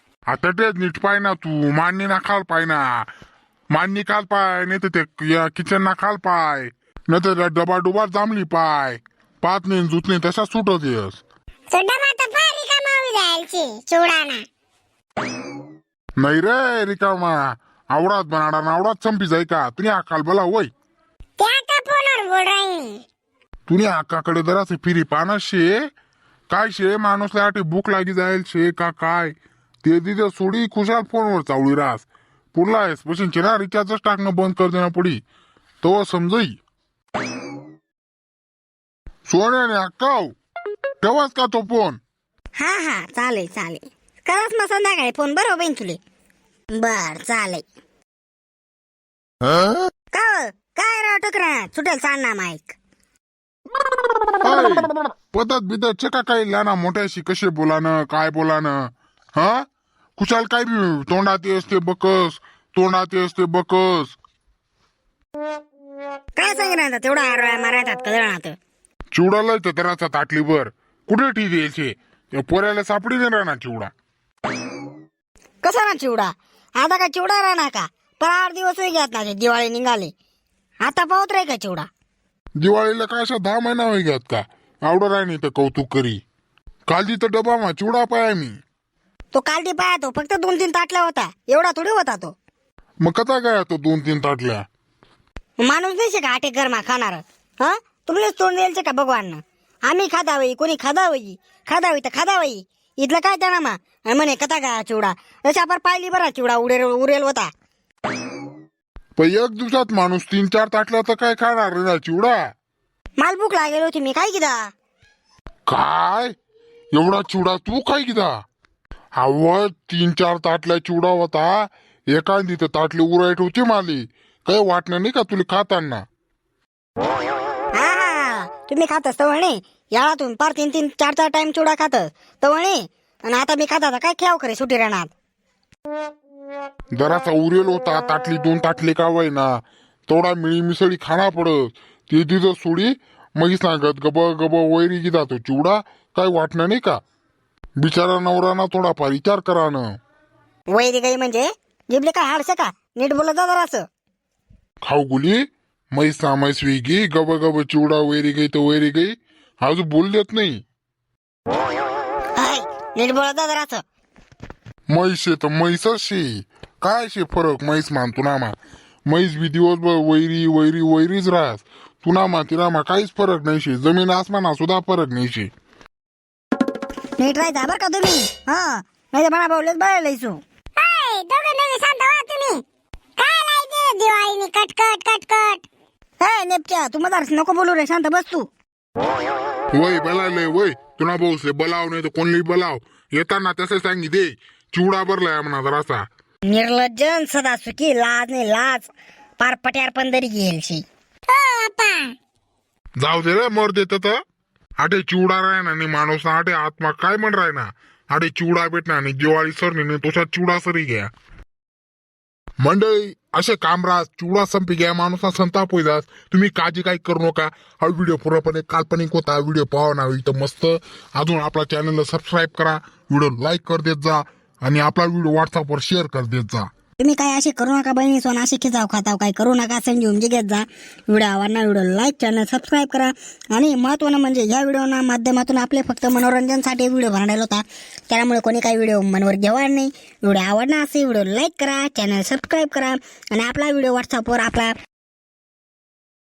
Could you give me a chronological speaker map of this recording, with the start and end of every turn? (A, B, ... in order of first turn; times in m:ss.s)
0:00.3-0:03.1 A
0:03.7-0:11.2 A
0:11.7-0:14.4 B
0:16.2-0:20.7 A
0:21.4-0:23.0 B
0:23.7-0:25.8 A
0:26.5-0:35.2 A
0:35.8-0:36.6 A
0:39.3-0:40.3 A
0:41.0-0:42.0 A
0:42.6-0:46.0 C
0:46.8-0:47.6 C
0:50.1-0:52.8 C
0:54.4-0:59.6 A
1:00.2-1:04.2 A
1:06.4-1:08.6 C
1:09.1-1:13.9 A
1:15.6-1:20.1 C
1:20.8-1:21.9 C
1:22.6-1:26.2 A
1:26.9-1:28.6 A
1:29.3-1:32.4 C
1:33.0-1:34.6 A
1:35.6-1:47.5 C
1:49.2-1:52.4 A
1:53.2-1:54.7 C
1:55.7-1:56.3 A
1:57.0-1:58.3 A
1:59.2-2:06.0 A
2:07.8-2:15.1 C
2:17.0-2:27.0 A
2:27.8-2:29.9 A
2:30.7-2:33.9 C
2:34.8-2:40.6 A
2:42.4-2:43.8 C
2:44.9-2:48.6 A
2:49.1-2:55.5 A
2:57.2-3:00.4 C
3:00.8-3:02.6 B
3:03.2-3:05.6 B
3:06.2-3:08.5 C
3:09.7-3:16.1 A
3:16.5-3:20.8 C
3:21.3-3:22.2 B
3:23.0-3:24.2 A
3:24.8-3:31.1 A
3:32.6-3:46.7 A
3:47.0-4:04.7 C